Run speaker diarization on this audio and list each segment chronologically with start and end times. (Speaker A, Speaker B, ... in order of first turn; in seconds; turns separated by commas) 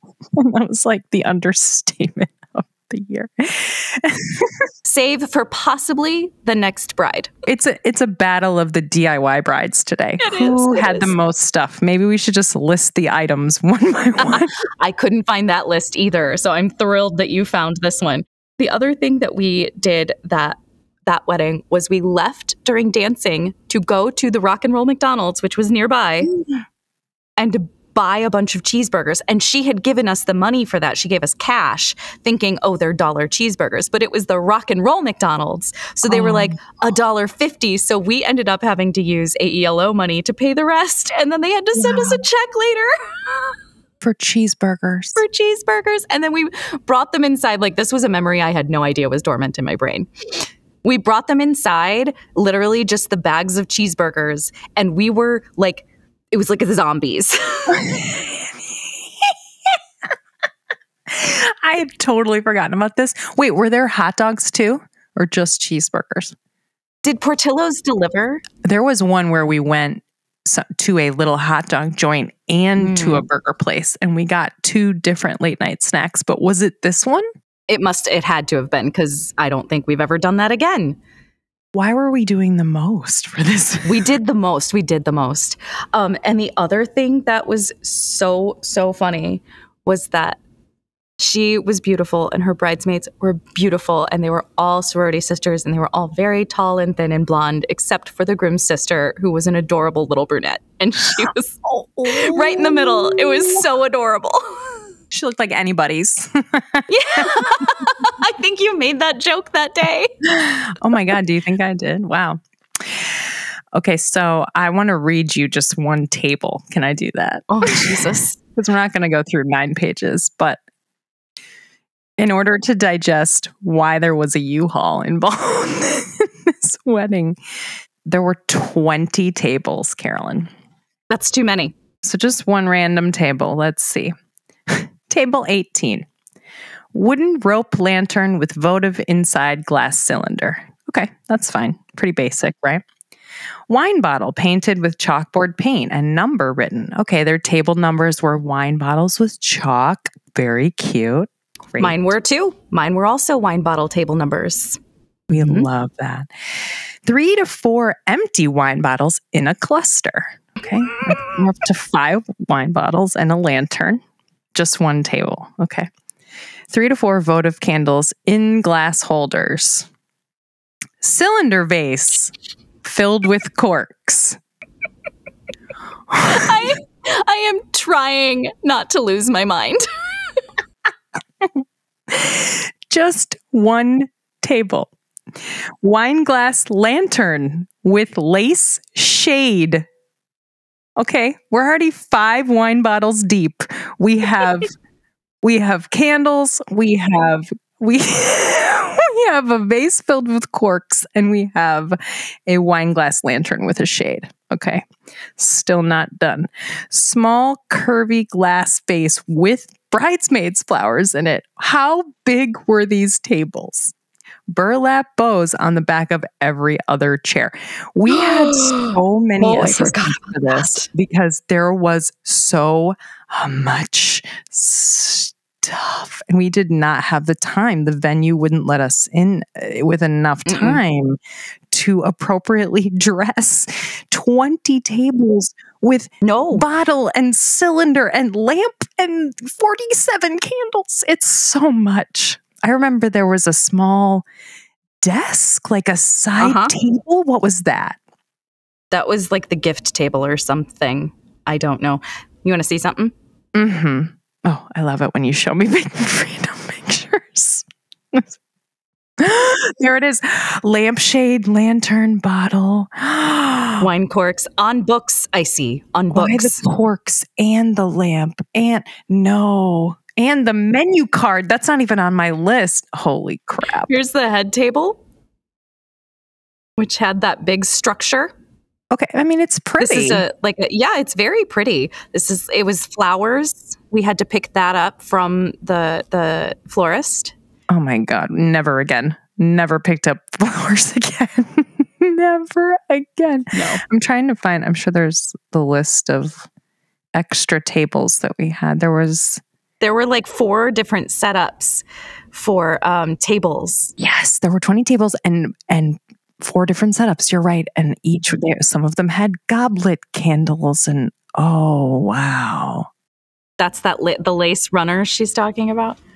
Speaker A: 0.3-4.7, Speaker B: 4.8-7.3, Speaker A: 7.5-14.5, Speaker B: 10.2-11.1, Speaker B: 14.2-26.3, Speaker A: 26.2-26.6, Speaker B: 27.4-43.5, Speaker A: 36.1-36.6, Speaker A: 41.8-42.2, Speaker A: 44.0-45.2, Speaker B: 45.1-50.1, Speaker B: 50.8-57.9, Speaker A: 57.7-58.5, Speaker A: 59.2-59.8, Speaker A: 61.1-66.3, Speaker B: 67.0-68.4, Speaker A: 68.6-77.2, Speaker B: 72.8-73.2, Speaker B: 77.7-81.0, Speaker A: 81.7-84.1, Speaker B: 83.8-90.4, Speaker B: 91.2-104.7, Speaker A: 101.2-103.6, Speaker A: 105.1-107.8, Speaker B: 106.9-110.1, Speaker A: 110.2-120.6, Speaker B: 117.5-118.4, Speaker A: 122.2-127.4, Speaker A: 128.0-130.5, Speaker B: 131.1-131.7, Speaker A: 132.0-134.1, Speaker A: 134.7-136.1, Speaker A: 136.9-142.8, Speaker A: 143.7-152.0, Speaker B: 151.8-155.7, Speaker A: 155.3-156.3, Speaker A: 157.0-164.0, Speaker A: 164.5-165.9, Speaker A: 166.7-169.9, Speaker A: 171.0-174.4, Speaker A: 176.1-176.6, Speaker B: 176.2-179.9, Speaker A: 181.4-184.9, Speaker A: 185.8-189.9, Speaker A: 191.0-194.7, Speaker A: 195.4-204.8, Speaker A: 205.4-213.9, Speaker A: 214.5-231.2, Speaker B: 218.1-220.9, Speaker B: 230.4-230.8, Speaker A: 231.7-244.2, Speaker B: 236.2-236.7, Speaker A: 245.0-248.0, Speaker B: 246.4-246.7, Speaker B: 248.9-253.1, Speaker A: 253.5-258.3, Speaker A: 259.2-263.9, Speaker B: 263.8-266.6, Speaker A: 266.1-273.9, Speaker B: 273.9-275.0, Speaker B: 276.8-278.3, Speaker A: 278.9-280.2, Speaker B: 279.8-287.3, Speaker A: 287.7-296.5, Speaker B: 293.5-293.8, Speaker A: 297.1-299.4, Speaker B: 299.8-303.9, Speaker A: 304.0-312.9, Speaker B: 313.6-316.0